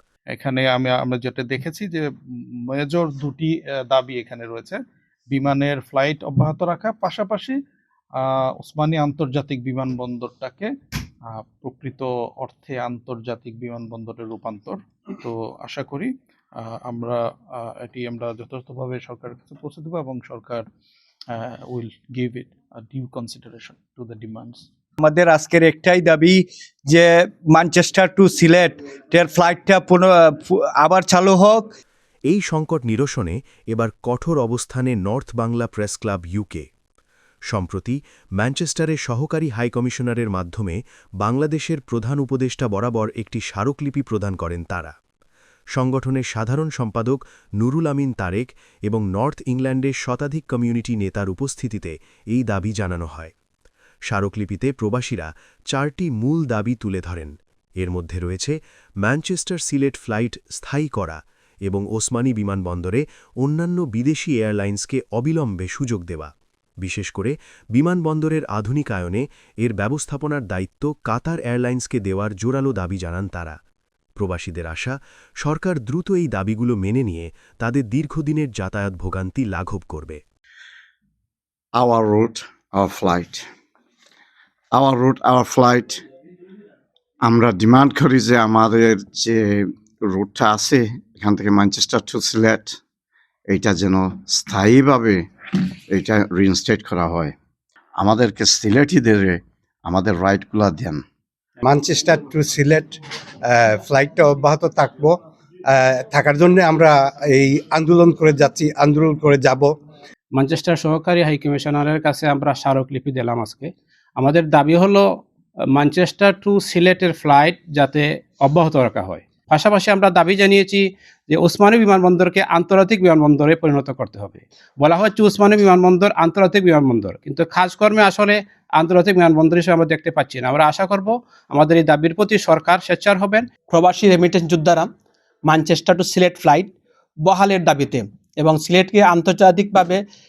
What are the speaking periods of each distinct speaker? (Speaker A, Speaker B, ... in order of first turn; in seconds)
Speaker A: 0.3-2.0, 2.7-4.8, 5.3-7.6, 8.2-10.7, 11.3-20.6, 21.3-24.6
Speaker B: 25.0-31.7
Speaker C: 32.3-36.7, 37.5-44.9, 45.7-53.3, 54.1-66.3, 66.8-73.6, 74.2-80.2
Speaker D: 81.8-83.4, 84.8-86.0, 87.2-92.8, 93.5-97.3, 98.0-101.0
Speaker E: 101.6-105.2, 105.7-109.7
Speaker F: 110.3-115.0, 115.7-133.7
Speaker G: 133.6-134.9, 135.5-136.7, 137.3-140.0